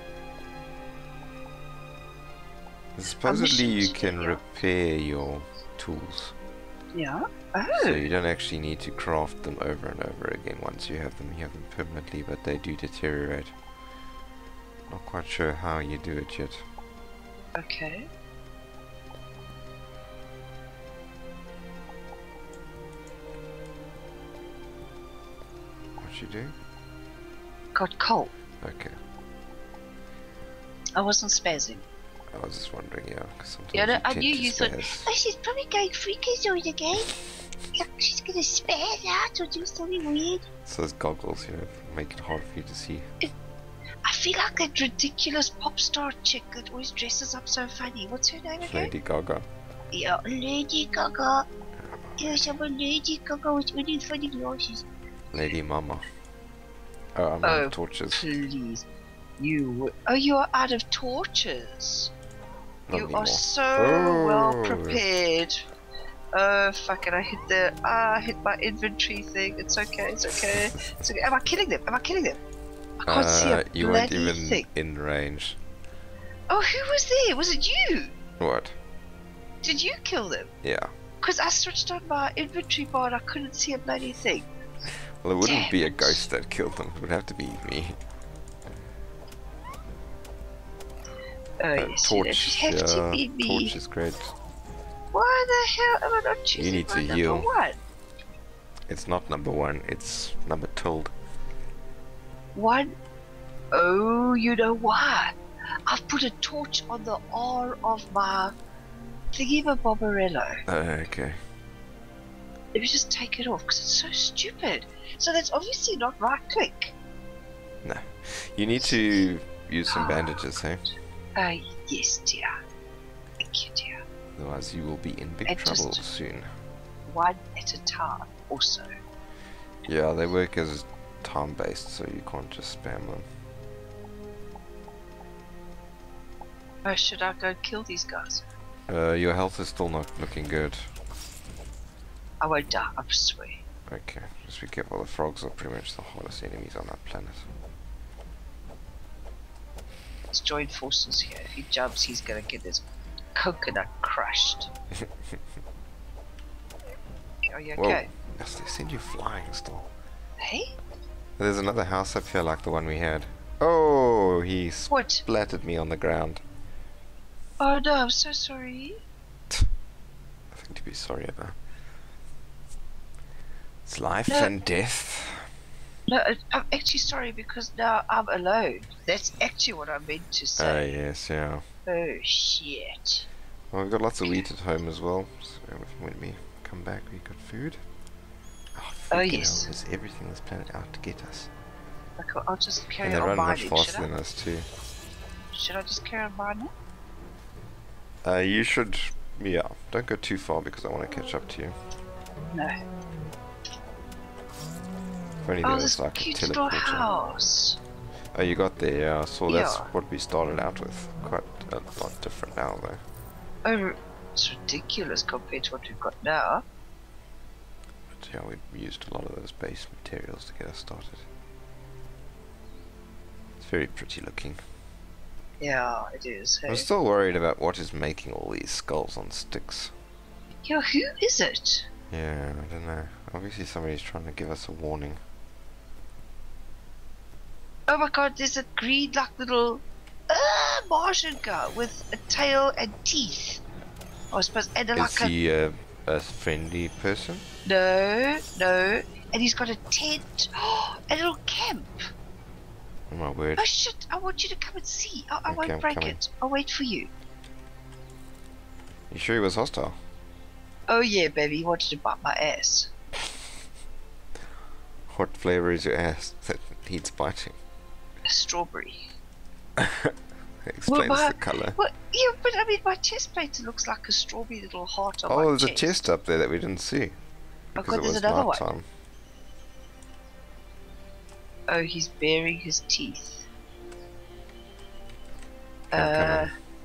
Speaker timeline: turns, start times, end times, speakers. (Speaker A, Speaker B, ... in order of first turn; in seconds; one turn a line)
Speaker A: 3.0-6.3
Speaker B: 3.2-4.4
Speaker B: 6.9-8.0
Speaker A: 7.7-13.5
Speaker A: 14.9-16.6
Speaker B: 17.5-18.1
Speaker A: 26.0-26.5
Speaker B: 27.7-28.3
Speaker A: 28.6-28.9
Speaker B: 31.0-31.8
Speaker A: 32.3-35.1
Speaker B: 33.7-37.1
Speaker B: 37.7-40.4
Speaker A: 40.6-43.1
Speaker B: 44.0-48.9
Speaker A: 48.6-49.5
Speaker B: 49.9-51.5
Speaker A: 51.8-52.5
Speaker B: 52.2-54.8
Speaker A: 55.3-56.0
Speaker A: 57.1-58.2
Speaker B: 57.4-58.9
Speaker B: 59.4-62.1
Speaker A: 62.9-65.0
Speaker B: 62.9-65.6
Speaker B: 66.3-72.4
Speaker A: 70.3-71.0
Speaker B: 73.0-74.6
Speaker A: 73.0-75.6
Speaker B: 76.5-78.1
Speaker A: 78.4-78.8
Speaker B: 79.6-80.5
Speaker A: 80.6-80.9
Speaker B: 81.2-84.5
Speaker A: 85.2-88.0
Speaker B: 85.4-86.3
Speaker B: 91.6-93.8
Speaker A: 91.8-94.3
Speaker B: 95.1-97.8
Speaker A: 96.5-97.5
Speaker A: 98.9-101.1
Speaker B: 102.5-102.9
Speaker B: 103.7-105.3
Speaker B: 105.9-108.5
Speaker B: 109.3-110.6
Speaker A: 110.7-111.3
Speaker B: 112.7-116.9
Speaker A: 117.8-120.8
Speaker B: 119.9-120.4
Speaker B: 121.3-122.5
Speaker B: 123.4-124.0
Speaker A: 124.3-126.5
Speaker B: 125.5-126.0
Speaker B: 127.1-128.9
Speaker A: 129.8-133.3
Speaker B: 136.8-138.4
Speaker A: 138.9-140.9
Speaker B: 142.4-143.6
Speaker A: 143.9-147.5
Speaker B: 150.3-154.7
Speaker A: 155.0-155.4
Speaker B: 157.4-158.1
Speaker A: 157.8-159.9
Speaker B: 160.4-160.7
Speaker A: 161.4-166.4
Speaker B: 164.9-165.2
Speaker B: 167.6-169.0
Speaker A: 170.5-171.6
Speaker A: 173.8-175.5
Speaker B: 174.3-174.5
Speaker B: 176.1-180.9
Speaker A: 180.6-181.6
Speaker B: 181.8-183.3
Speaker A: 183.7-187.8
Speaker A: 188.7-191.5
Speaker B: 189.1-189.7
Speaker B: 192.2-194.1
Speaker A: 193.0-194.7
Speaker B: 195.5-196.7
Speaker A: 198.2-201.8
Speaker A: 205.4-207.1
Speaker B: 205.6-207.8
Speaker A: 208.3-213.0
Speaker B: 209.5-209.9
Speaker B: 213.6-216.6
Speaker A: 218.1-221.2
Speaker A: 223.6-224.6
Speaker B: 225.6-226.9
Speaker A: 226.7-229.9
Speaker B: 230.6-231.9
Speaker A: 232.1-235.2
Speaker B: 237.9-243.6
Speaker B: 244.3-245.3
Speaker A: 244.9-247.4
Speaker B: 247.6-252.0
Speaker A: 253.1-253.7
Speaker B: 253.6-257.1
Speaker A: 255.5-256.2
Speaker A: 259.1-260.0
Speaker B: 260.9-262.9
Speaker A: 265.1-267.6
Speaker B: 268.2-269.1
Speaker A: 269.8-271.8
Speaker B: 270.9-276.1
Speaker A: 275.3-277.1
Speaker A: 277.8-278.9
Speaker B: 277.8-278.7
Speaker B: 281.7-283.5
Speaker B: 285.9-286.5
Speaker A: 285.9-286.5